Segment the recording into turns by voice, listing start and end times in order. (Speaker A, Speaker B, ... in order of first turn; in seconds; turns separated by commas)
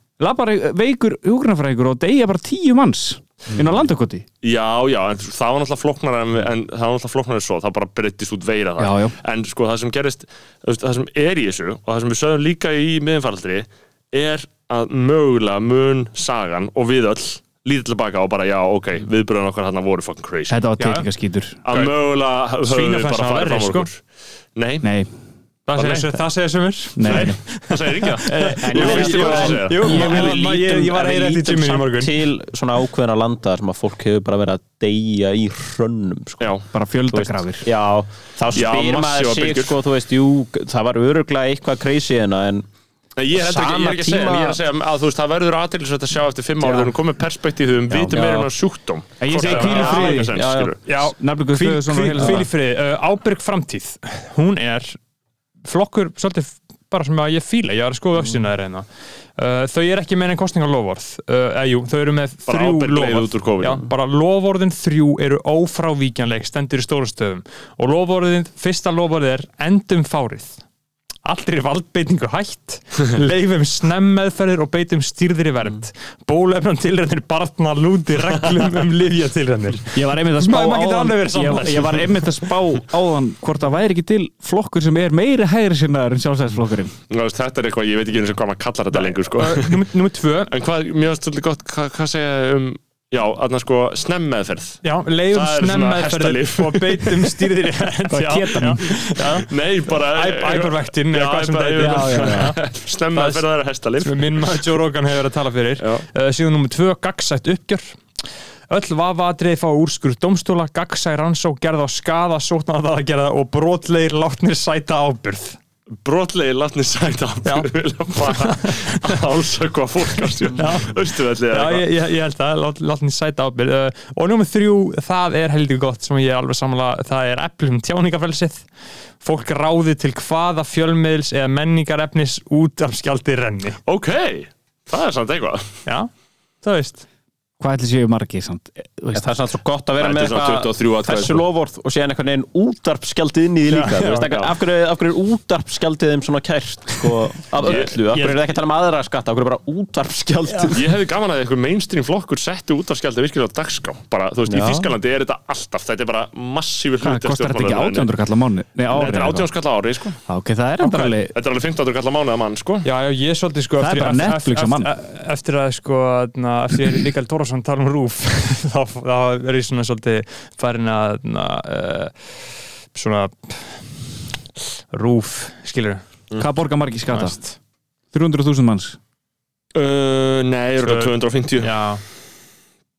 Speaker A: 0.2-4.2, Speaker B: 4.4-20.6, Speaker A: 8.8-9.2, Speaker A: 20.5-21.6, Speaker C: 20.8-21.1, Speaker B: 21.6-24.0, Speaker C: 21.7-21.9, Speaker C: 22.6-23.9, Speaker B: 24.6-24.9, Speaker A: 24.8-25.1, Speaker C: 25.7-32.2, Speaker B: 25.8-26.1, Speaker A: 27.0-27.4, Speaker B: 27.1-30.4, Speaker D: 28.6-36.5, Speaker A: 29.9-30.3, Speaker B: 36.4-36.7, Speaker A: 36.7-37.7, Speaker D: 37.1-42.6, Speaker B: 38.5-39.8, Speaker B: 43.2-50.8, Speaker D: 43.3-44.6, Speaker D: 46.6-46.9, Speaker A: 47.9-48.2, Speaker D: 48.1-48.5, Speaker A: 49.2-50.3, Speaker C: 49.4-50.2, Speaker D: 49.6-50.7, Speaker C: 50.9-55.0, Speaker A: 51.1-52.5, Speaker C: 55.6-70.6, Speaker B: 62.5-63.9, Speaker C: 71.2-82.4, Speaker A: 79.9-87.0, Speaker B: 87.1-89.8, Speaker C: 88.9-90.5, Speaker B: 90.5-97.5, Speaker C: 94.8-102.6, Speaker A: 98.1-99.2, Speaker B: 99.4-104.7, Speaker A: 101.8-102.5, Speaker C: 103.1-103.4, Speaker C: 104.0-108.0, Speaker B: 105.8-106.0, Speaker C: 108.7-115.6, Speaker B: 116.0-121.8, Speaker C: 117.5-119.2, Speaker C: 120.2-128.7, Speaker C: 129.2-133.8, Speaker B: 133.9-135.7, Speaker C: 136.6-137.0, Speaker A: 137.6-139.3, Speaker D: 139.2-150.9, Speaker B: 140.0-141.4, Speaker C: 143.7-144.4, Speaker B: 147.6-147.9, Speaker C: 148.0-148.4, Speaker C: 150.5-150.8, Speaker B: 150.7-158.1, Speaker D: 154.5-154.9, Speaker A: 157.0-159.5, Speaker B: 158.9-160.2, Speaker A: 160.3-161.3, Speaker C: 160.8-161.1, Speaker B: 161.3-162.9, Speaker C: 162.8-173.9, Speaker A: 163.8-164.9, Speaker C: 174.9-176.0, Speaker A: 176.4-177.4, Speaker C: 177.1-177.6, Speaker A: 178.1-179.0, Speaker B: 179.8-181.7, Speaker C: 180.8-182.0